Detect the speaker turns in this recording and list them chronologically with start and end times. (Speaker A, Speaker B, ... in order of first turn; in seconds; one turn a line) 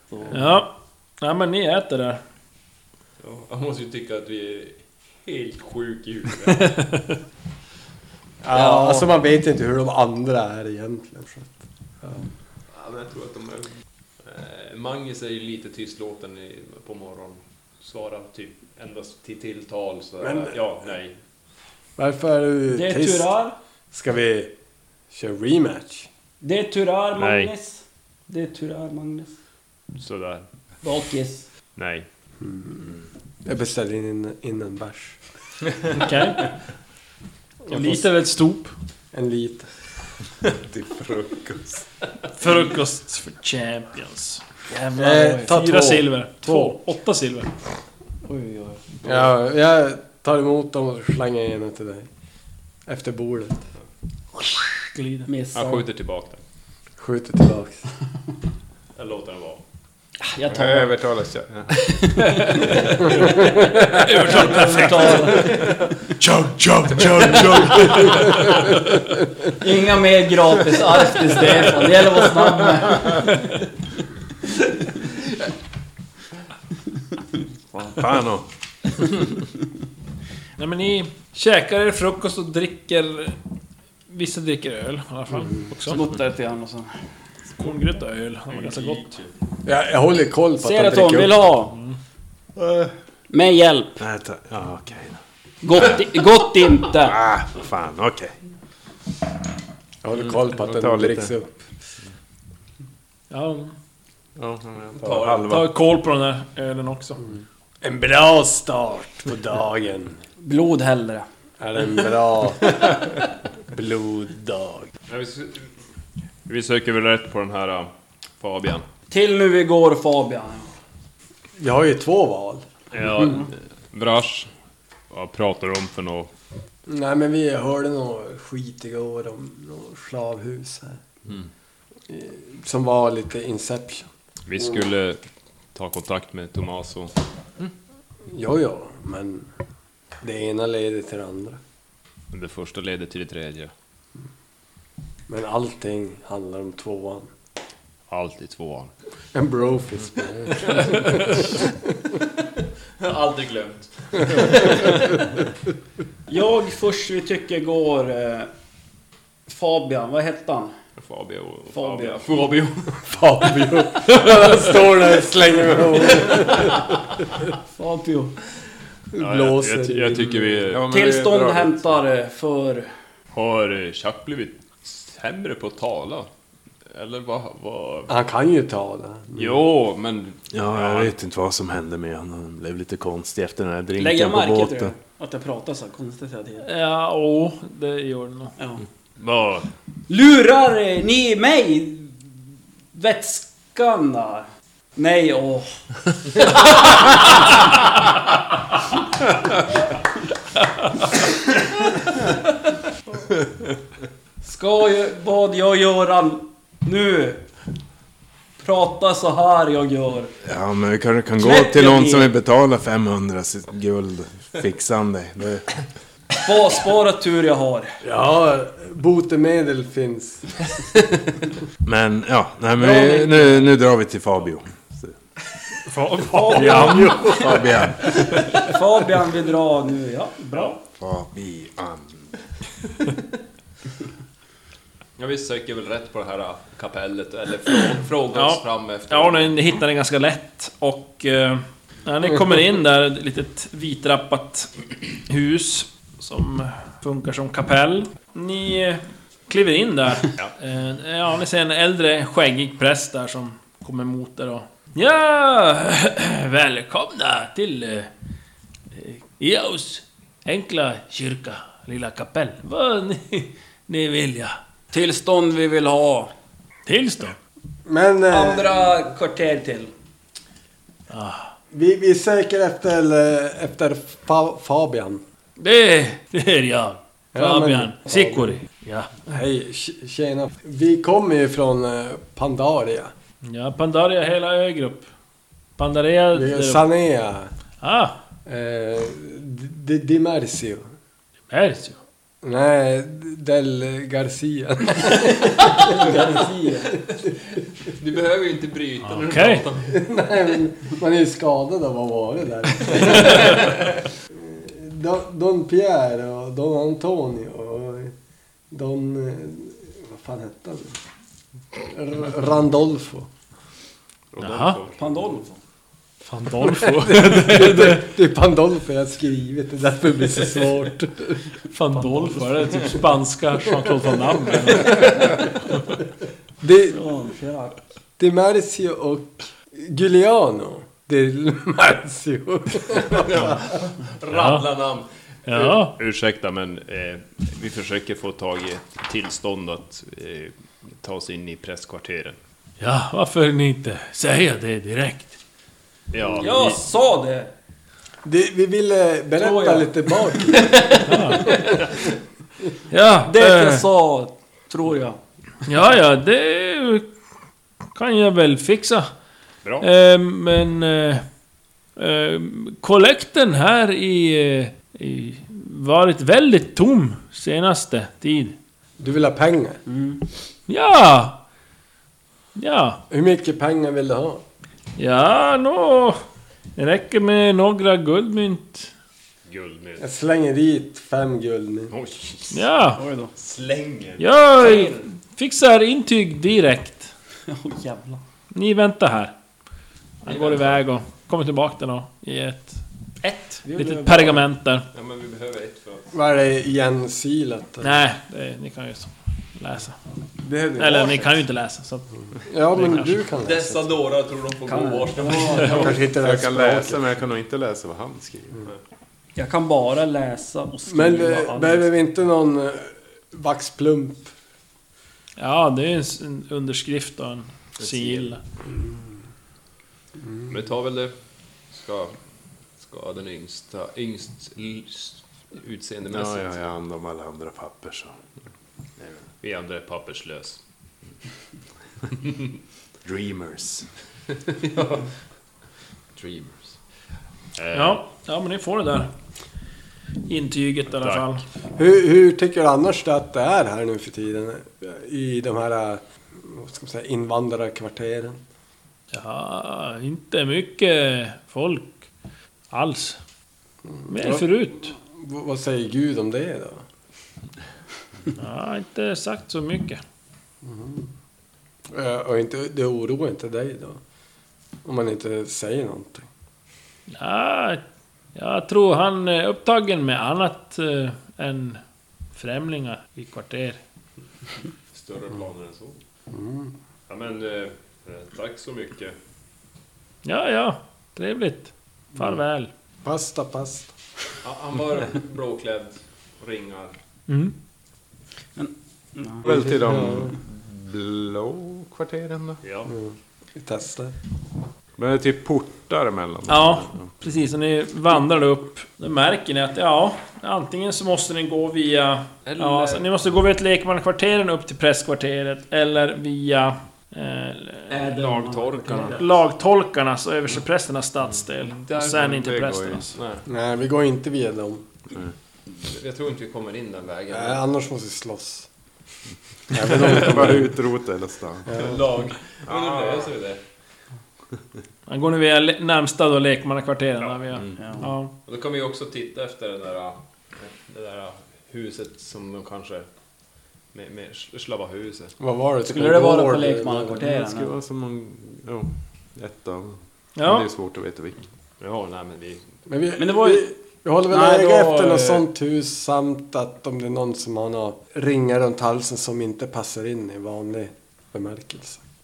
Speaker A: 0.1-0.6
Speaker B: 0.3-2.2
Speaker C: 3.2-6.7
Speaker B: 6.5-7.2
Speaker D: 8.4-12.2
Speaker A: 8.5-9.1
Speaker C: 12.7-13.7
Speaker C: 14.2-21.1
Speaker D: 20.2-20.6
Speaker D: 22.0-23.3
Speaker A: 22.7-23.6
Speaker D: 23.9-24.5
Speaker D: 25.1-26.1
Speaker A: 26.4-29.3
Speaker C: 27.2-27.5
Speaker C: 30.0-30.5
Speaker A: 30.8-31.4
Speaker C: 31.8-32.1
Speaker D: 32.4-32.9
Speaker D: 33.4-35.2
Speaker B: 35.9-36.5
Speaker D: 37.7-38.0
Speaker B: 37.7-38.7
Speaker D: 39.1-39.7
Speaker E: 40.5-41.8
Speaker B: 42.4-44.4
Speaker A: 44.7-45.5
Speaker D: 44.9-46.8
Speaker B: 45.2-47.5
Speaker A: 48.2-49.0
Speaker D: 49.0-52.1
Speaker D: 52.9-53.6
Speaker B: 54.9-55.3
Speaker A: 55.3-55.8
Speaker C: 55.5-56.4
Speaker D: 57.0-57.9
Speaker C: 59.0-59.6
Speaker A: 60.2-60.9
Speaker E: 60.5-61.7
Speaker A: 61.8-65.7
Speaker B: 62.3-62.9
Speaker B: 63.8-65.5
Speaker E: 66.2-67.8
Speaker A: 67.3-67.6
Speaker B: 67.8-68.3
Speaker A: 69.5-73.5
Speaker E: 78.0-78.5
Speaker B: 80.6-83.4
Speaker B: 84.1-86.0
Speaker A: 85.9-86.9
Speaker B: 87.6-89.1
Speaker C: 88.5-89.3
Speaker D: 89.6-91.5
Speaker A: 90.6-91.7
Speaker E: 92.5-92.9
Speaker A: 93.3-94.0
Speaker E: 94.0-95.2
Speaker A: 95.6-97.2
Speaker E: 97.0-98.3
Speaker D: 100.0-101.6
Speaker E: 100.6-101.3
Speaker B: 103.3-103.7
Speaker E: 104.4-105.7
Speaker C: 104.9-105.6
Speaker B: 105.5-107.2
Speaker D: 107.8-110.2
Speaker A: 110.4-111.3
Speaker D: 111.6-113.2
Speaker D: 113.7-114.9
Speaker C: 115.1-115.7
Speaker C: 116.5-118.8
Speaker A: 119.1-120.7
Speaker D: 121.6-122.7
Speaker C: 122.9-124.5
Speaker C: 125.1-126.3
Speaker D: 126.9-131.0
Speaker D: 132.1-134.1
Speaker C: 134.5-135.2
Speaker C: 135.7-137.1
Speaker D: 138.3-139.5
Speaker D: 140.2-141.6
Speaker C: 142.3-143.7
Speaker D: 145.3-147.3
Speaker C: 148.1-148.9
Speaker D: 149.3-151.4
Speaker C: 150.6-151.5
Speaker C: 153.0-155.2
Speaker A: 156.3-158.5
Speaker A: 159.5-160.7
Speaker C: 161.0-163.2
Speaker A: 161.7-162.2
Speaker D: 163.1-167.2
Speaker A: 167.7-168.3
Speaker D: 169.1-170.7
Speaker C: 169.2-170.9
Speaker E: 170.7-171.9
Speaker A: 170.9-172.9
Speaker C: 173.3-176.3
Speaker C: 176.9-178.1
Speaker D: 178.1-179.6
Speaker C: 179.3-181.1
Speaker E: 180.5-184.9
Speaker A: 184.0-186.7
Speaker B: 186.6-188.5
Speaker A: 188.6-188.8
Speaker C: 189.2-189.7
Speaker A: 190.1-192.2
Speaker A: 192.9-195.8
Speaker A: 196.3-197.5
Speaker A: 204.4-207.4
Speaker A: 208.6-210.3
Speaker E: 210.4-215.7
Speaker A: 211.4-212.3
Speaker A: 216.4-218.0
Speaker D: 218.0-220.5
Speaker E: 221.8-225.2
Speaker A: 222.8-223.7
Speaker B: 225.9-227.4
Speaker A: 226.2-230.8
Speaker E: 226.5-228.4
Speaker E: 231.0-232.3
Speaker C: 235.2-239.6
Speaker B: 238.3-258.1
Speaker B: 258.9-264.6
Speaker A: 264.9-266.3
Speaker B: 266.9-267.4
Speaker D: 267.9-268.8
Speaker A: 268.3-269.9
Speaker B: 271.1-271.5
Speaker D: 271.7-275.2
Speaker B: 275.6-279.1
Speaker D: 277.3-278.6
Speaker D: 279.3-283.1
Speaker B: 283.4-285.1
Speaker B: 285.8-286.8
Speaker D: 286.3-287.5
Speaker B: 287.8-288.1
Speaker D: 288.4-290.9
Speaker B: 291.5-292.0
Speaker D: 292.4-297.3
Speaker A: 295.8-296.9
Speaker C: 297.9-300.0
Speaker B: 299.0-299.6
Speaker D: 299.9-308.1
Speaker C: 303.2-303.5
Speaker D: 308.7-311.0
Speaker D: 311.9-313.3
Speaker C: 314.3-315.2
Speaker B: 314.4-314.8
Speaker A: 315.0-315.6
Speaker B: 316.2-318.1
Speaker D: 316.6-321.4
Speaker B: 321.7-325.5
Speaker D: 326.6-327.0
Speaker A: 326.9-327.8
Speaker D: 328.2-333.6
Speaker C: 333.0-342.4
Speaker B: 334.3-334.6
Speaker B: 335.5-335.9
Speaker B: 342.8-345.4
Speaker C: 346.1-346.8
Speaker A: 346.4-347.5
Speaker D: 348.2-351.8
Speaker A: 349.4-350.9
Speaker B: 351.0-351.6
Speaker B: 352.9-353.8
Speaker A: 353.2-355.2
Speaker B: 355.6-357.1
Speaker B: 357.9-359.1
Speaker B: 359.8-361.2
Speaker B: 362.0-368.5
Speaker D: 369.0-369.8
Speaker A: 369.9-370.2
Speaker B: 370.7-371.4
Speaker B: 372.5-373.0
Speaker D: 373.1-374.4
Speaker B: 375.0-376.2
Speaker B: 376.8-378.9
Speaker C: 379.5-380.1
Speaker D: 380.0-381.9
Speaker C: 381.9-382.6
Speaker B: 382.5-383.0
Speaker A: 383.0-383.3
Speaker C: 383.4-384.9
Speaker B: 384.2-387.1
Speaker A: 384.6-384.9
Speaker A: 387.5-388.2
Speaker B: 388.5-389.3
Speaker B: 390.2-394.9
Speaker C: 390.2-390.8
Speaker A: 393.6-394.4
Speaker C: 394.9-396.1
Speaker D: 396.1-398.0
Speaker B: 397.8-400.0
Speaker D: 400.4-401.3
Speaker B: 400.8-402.1
Speaker D: 402.4-403.9
Speaker B: 402.7-403.2
Speaker C: 403.4-406.0
Speaker A: 404.6-405.9
Speaker D: 405.5-407.0
Speaker E: 405.9-408.6
Speaker A: 409.4-411.9
Speaker D: 410.9-414.3
Speaker B: 415.4-418.4
Speaker C: 417.8-418.3
Speaker D: 418.7-419.0
Speaker C: 420.5-421.1
Speaker C: 421.7-422.1
Speaker C: 422.8-426.6
Speaker E: 426.1-428.2
Speaker E: 429.0-429.2
Speaker C: 429.4-430.6
Speaker E: 433.0-433.9
Speaker C: 434.5-435.1
Speaker C: 436.1-436.8
Speaker C: 437.6-438.0
Speaker B: 437.7-439.1
Speaker B: 440.3-441.4
Speaker D: 441.7-448.4
Speaker B: 449.1-452.0
Speaker B: 452.7-453.2
Speaker D: 454.0-456.8
Speaker B: 454.1-454.9
Speaker B: 458.4-460.0
Speaker D: 460.6-461.1
Speaker D: 461.9-464.0
Speaker D: 464.8-466.3
Speaker B: 467.1-467.8
Speaker B: 468.3-471.8
Speaker B: 472.3-473.8
Speaker C: 474.9-476.0
Speaker D: 476.3-476.7
Speaker C: 477.1-479.1
Speaker B: 480.2-482.7
Speaker D: 483.0-483.9
Speaker C: 484.4-486.9
Speaker B: 487.3-487.5
Speaker A: 488.6-489.4
Speaker E: 489.4-492.6
Speaker D: 489.4-490.4
Speaker C: 492.6-492.9
Speaker D: 492.9-494.1
Speaker E: 495.0-497.1
Speaker B: 496.5-508.1
Speaker C: 502.4-503.1
Speaker A: 507.9-509.3
Speaker C: 508.1-509.2
Speaker B: 509.1-513.2
Speaker C: 511.7-512.3
Speaker E: 512.1-513.2
Speaker C: 513.1-513.4
Speaker D: 513.5-514.9
Speaker C: 515.8-517.6
Speaker D: 517.3-518.7
Speaker D: 519.7-520.8
Speaker E: 519.9-521.8
Speaker D: 521.7-522.0
Speaker C: 521.7-523.6
Speaker E: 522.6-523.3
Speaker B: 525.1-528.3
Speaker C: 527.2-527.8
Speaker A: 527.8-528.0
Speaker C: 528.4-533.1
Speaker C: 533.9-535.3
Speaker D: 535.4-537.2
Speaker A: 535.9-537.7
Speaker E: 537.2-541.4
Speaker B: 540.4-540.7
Speaker C: 541.8-542.6
Speaker D: 542.9-552.0
Speaker A: 543.2-543.7
Speaker A: 544.3-545.4